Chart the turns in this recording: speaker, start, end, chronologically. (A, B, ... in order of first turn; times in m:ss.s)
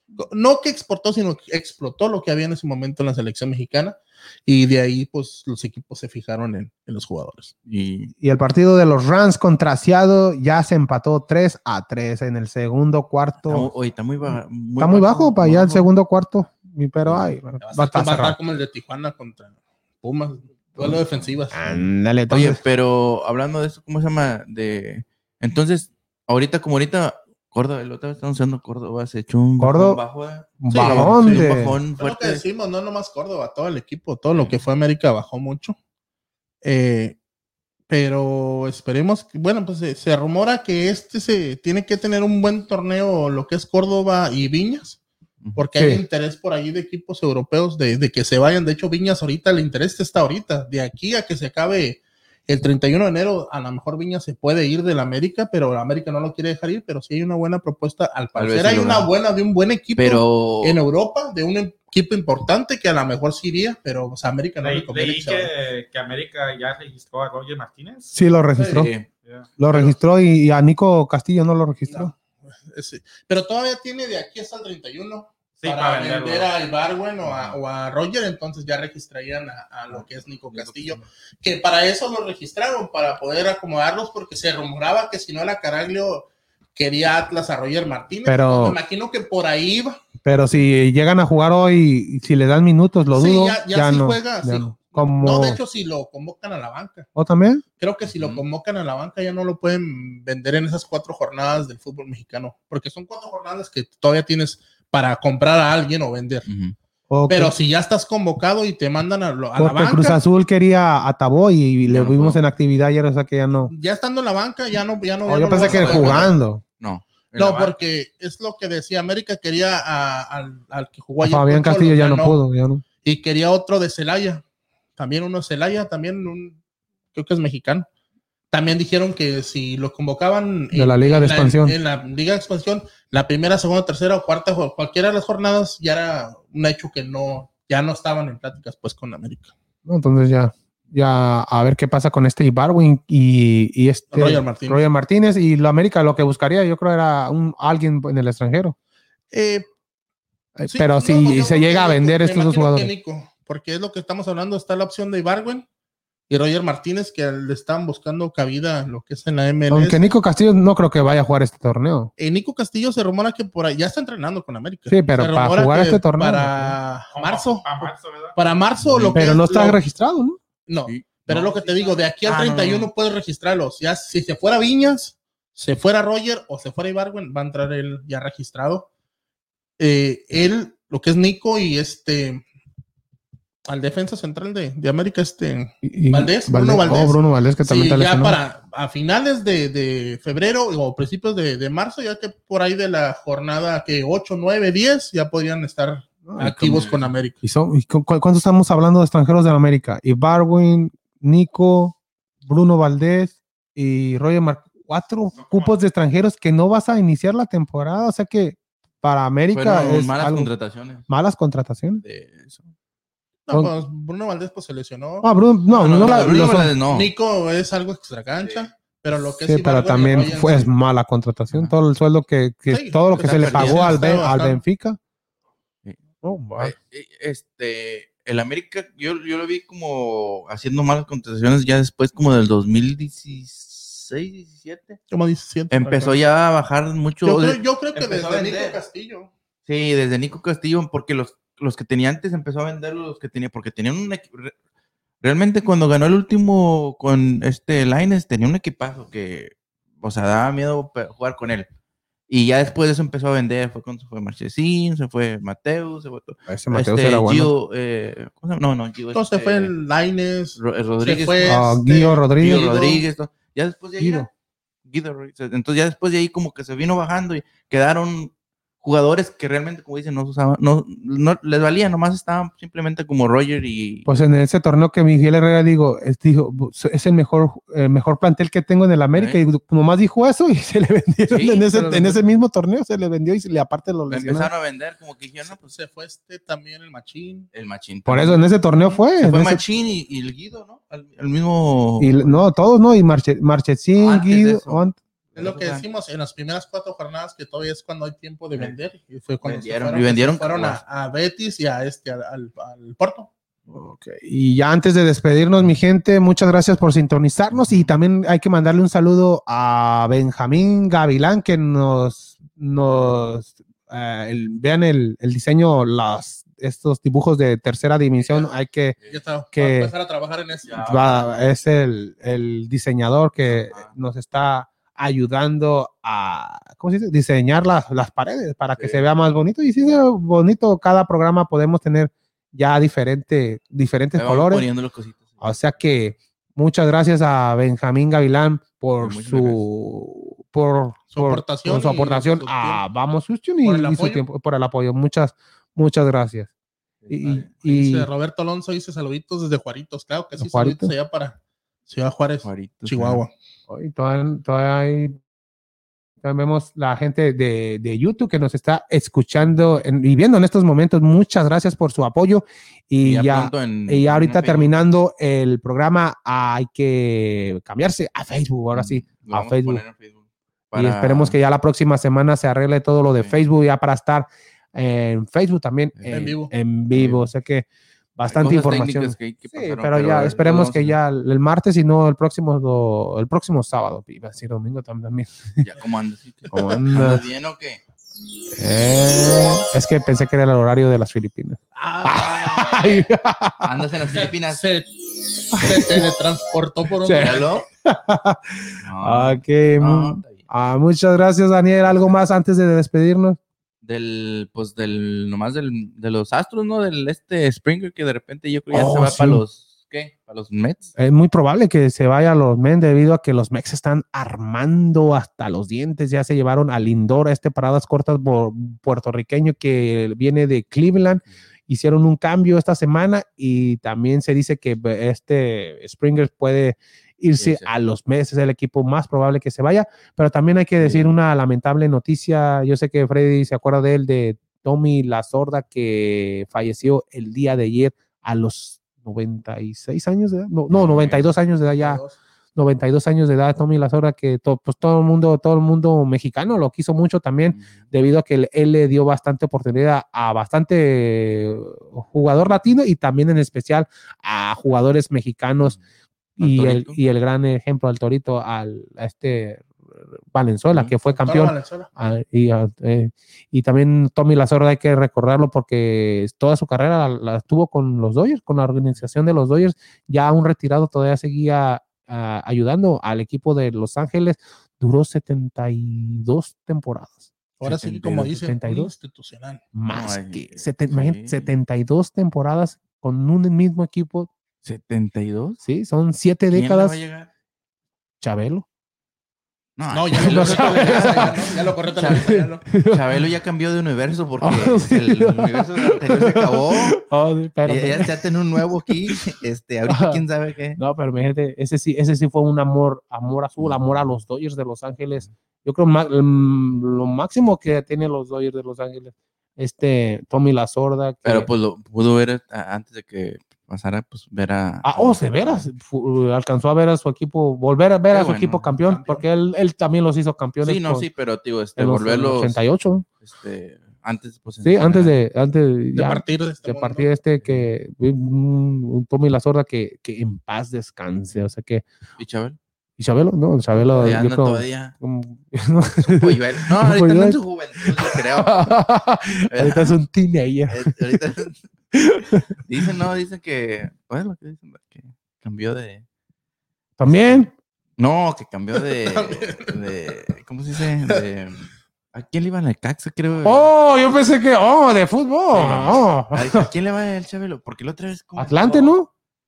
0:00.2-0:07.5 A
0:07.7-0:08.1 B
0:08.2-0:13.7 C
0:13.4-0:15.9 B
0:14.3-0:18.4 C
0:17.6-0:21.8 A
0:21.5-0:22.6 C
0:22.3-0:32.4 B
0:29.6-0:30.0 C
0:30.6-0:31.8 C
0:30.7-0:35.8 A
0:36.6-0:37.2 A
0:37.9-0:45.0 A
0:45.6-1:05.5 A
0:45.8-0:46.0 C
0:58.4-0:59.1 B
1:00.0-1:00.8 B
1:04.6-1:08.2 D
1:08.1-1:08.9 C
1:08.6-1:08.9 A
1:08.7-1:09.1 B
1:09.2-1:09.5 D
1:09.6-1:12.1 C
1:09.7-1:10.0 A
1:11.9-1:30.0 A
1:15.6-1:16.5 D
1:17.2-1:17.6 B
1:19.9-1:21.0 B
1:28.3-1:28.8 C
1:30.2-1:35.6 C
1:33.1-1:37.1 A
1:37.2-1:37.6 C
1:37.8-1:46.5 A
1:38.1-1:38.4 B
1:46.5-1:46.8 B
1:47.1-1:47.6 C
1:47.3-1:50.2 A
1:49.6-1:53.7 C
1:51.9-1:52.4 B
1:53.7-1:56.4 A
1:55.3-1:56.6 C
1:55.5-1:57.7 B
1:57.4-2:02.4 A
2:01.2-2:02.8 C
2:03.0-2:04.4 A
2:05.0-2:06.6 A
2:07.1-2:07.9 A
2:08.5-2:19.5 A
2:10.7-2:11.8 C
2:19.9-2:28.8 C
2:24.1-2:24.9 A
2:29.3-2:29.7 A
2:30.6-2:32.9 C
2:30.6-2:35.7 A
2:36.3-2:40.1 A
2:39.7-2:42.1 C
2:42.2-2:49.8 A
2:44.9-2:46.8 C
2:47.1-2:48.4 D
2:48.8-2:49.2 B
2:49.1-2:50.4 C
2:50.7-2:58.9 A
2:50.9-2:52.9 B
2:59.8-3:02.4 A
3:03.7-3:17.4 A
3:05.8-3:08.4 C
3:16.2-3:16.8 C
3:16.6-3:17.1 B
3:17.4-3:30.5 C
3:25.3-3:25.8 D
3:29.5-3:31.1 B
3:31.1-3:32.0 C
3:32.0-3:32.7 B
3:33.5-3:40.7 A
3:35.2-3:36.7 C
3:35.8-3:37.1 B
3:38.4-3:38.7 B
3:39.4-3:45.0 C
3:42.7-3:44.6 A
3:43.2-3:43.9 B
3:46.2-3:46.8 C
3:46.6-3:55.0 B
3:55.1-3:56.2 A
3:55.7-3:58.8 B
3:57.2-3:59.3 A
3:59.7-4:04.5 B
4:05.2-4:11.7 B
4:12.3-4:19.7 B
4:16.5-4:17.5 C
4:19.1-4:23.0 A
4:20.6-4:21.6 B
4:21.4-4:22.8 C
4:22.4-4:24.3 B
4:24.0-4:24.3 C
4:24.9-4:34.1 B
4:34.1-4:44.5 C
4:39.1-4:39.4 B
4:41.3-4:41.8 B
4:41.7-4:42.2 A
4:44.1-4:45.6 B
4:45.5-4:47.5 A
4:47.5-4:52.4 B
4:48.1-4:49.6 C
4:52.0-4:55.0 C
4:54.0-4:54.8 B
4:55.4-4:55.8 B
4:55.4-5:03.3 A
4:59.4-5:00.8 B
5:03.7-5:19.0 C
5:18.2-5:18.5 A
5:19.1-5:21.3 A
5:19.5-5:19.9 C
5:20.6-5:21.1 B
5:20.8-5:34.7 C
5:23.5-5:23.9 B
5:28.8-5:29.1 B
5:34.1-5:35.5 B
5:35.4-5:46.5 C
5:39.0-5:39.6 B
5:41.1-5:42.8 A
5:43.6-5:44.2 A
5:47.0-5:47.5 B
5:47.1-5:48.1 C
5:47.4-5:53.3 A
5:50.4-5:50.9 C
5:52.4-5:53.2 B
5:53.7-5:55.2 C
5:56.2-6:09.8 C
6:03.0-6:04.7 B
6:08.8-6:11.4 B
6:10.7-6:25.6 C
6:16.0-6:16.3 B
6:16.1-6:16.5 A
6:16.9-6:17.3 B
6:18.2-6:21.0 B
6:25.6-6:27.8 B
6:26.5-6:27.2 C
6:28.5-6:33.7 C
6:31.8-6:33.1 A
6:33.6-6:34.6 B
6:34.1-6:37.6 A
6:35.5-6:36.1 C
6:37.0-6:43.4 C
6:37.2-6:37.7 B
6:38.8-6:40.5 B
6:43.8-6:50.9 B
6:48.7-6:49.4 C
6:51.0-7:22.0 C
7:07.4-7:07.7 B
7:10.8-7:11.2 B
7:20.7-7:21.3 B
7:21.8-7:22.2 A
7:22.6-7:35.8 C
7:27.5-7:27.9 B
7:36.4-7:39.7 C
7:36.4-7:37.0 B
7:40.3-7:58.9 C
7:41.1-7:41.9 A
7:57.6-7:59.6 A
7:57.6-7:58.3 B
7:59.7-8:04.3 C
7:59.9-8:01.5 B
8:04.6-8:05.6 B
8:05.6-8:07.0 C
8:06.5-8:07.3 B
8:08.2-8:08.7 C
8:09.8-8:11.4 B
8:09.9-8:12.6 A
8:10.2-8:11.5 C
8:12.0-8:17.0 B
8:12.0-8:13.0 C
8:14.4-8:18.1 C
8:17.6-8:20.8 B
8:19.9-8:20.2 C
8:20.8-8:31.5 C
8:23.6-8:24.0 B
8:31.2-8:35.7 B
8:34.8-8:41.1 C
8:38.1-8:38.7 B
8:38.8-8:39.2 A
8:40.6-8:42.6 B
8:41.8-8:43.1 C
8:43.2-8:45.1 B
8:44.6-8:51.8 C
8:46.0-8:47.1 A
8:47.4-8:47.7 B
8:52.2-8:52.6 B
8:53.0-9:01.2 C
8:53.8-8:54.9 B
8:56.0-8:58.8 B
8:59.5-9:00.0 B
9:00.7-9:01.7 B
9:01.9-9:02.6 C
9:02.6-9:06.0 B
9:07.0-9:07.5 C
9:07.1-9:07.5 B
9:08.0-9:13.7 B
9:09.1-9:09.8 A
9:13.4-9:16.7 C
9:15.5-9:19.0 B
9:18.4-9:19.1 C